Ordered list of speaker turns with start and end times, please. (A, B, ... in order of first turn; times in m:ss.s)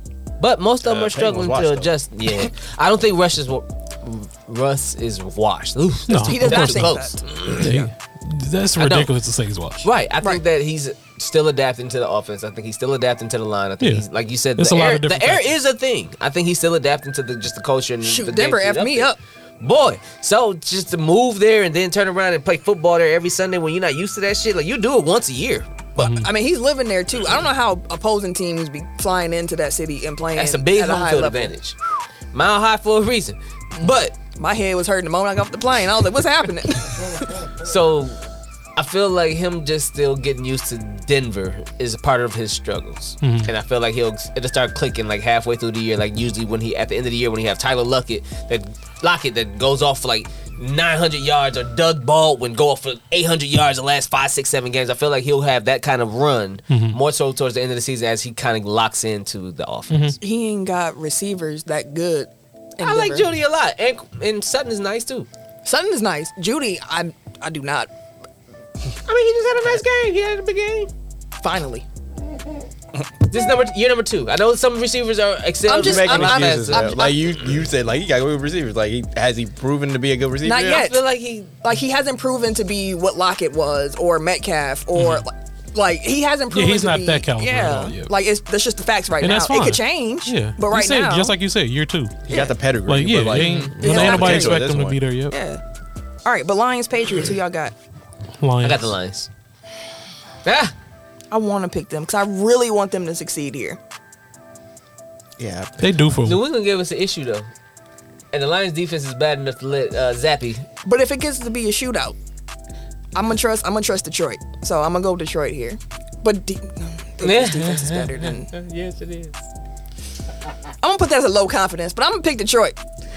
0:00.4-0:07.9 A
0:00.8-0:01.9 B
0:06.1-0:07.0 C
0:06.2-0:07.8 D
0:07.6-0:09.9 C
0:08.8-0:09.1 A
0:09.8-0:25.7 A
0:13.8-0:15.5 C
0:18.0-0:19.2 D
0:26.0-0:31.5 D
0:26.0-0:26.3 C
0:30.3-0:31.8 A
0:32.3-0:34.1 A
0:33.8-0:37.4 D
0:37.6-0:38.2 A
0:38.8-1:00.2 A
0:43.2-0:43.5 C
0:56.7-0:57.0 C
0:59.9-1:00.2 C
1:00.2-1:03.3 D
1:02.8-1:05.3 A
1:05.6-1:07.9 D
1:09.0-1:10.9 A
1:11.4-1:11.8 D
1:13.3-1:17.0 A
1:15.6-1:17.3 D
1:15.8-1:20.9 B
1:20.4-1:21.0 D
1:20.6-1:21.5 A
1:21.5-1:31.3 D
1:24.9-1:25.2 C
1:26.5-1:28.1 C
1:29.2-1:32.2 C
1:32.3-1:35.0 B
1:32.3-1:32.5 D
1:32.8-1:35.4 C
1:33.4-1:33.7 A
1:33.8-1:34.6 D
1:35.3-1:35.6 D
1:36.2-1:37.7 D
1:38.4-1:38.9 C
1:38.6-1:39.3 A
1:40.4-1:40.7 A
1:41.3-1:43.8 D
1:45.4-1:45.9 B
1:45.8-1:46.4 C
1:46.2-1:47.5 A
1:48.3-1:50.6 A
1:50.8-1:52.2 D
1:53.1-1:58.5 D
1:57.2-1:59.4 A
2:00.8-2:02.8 D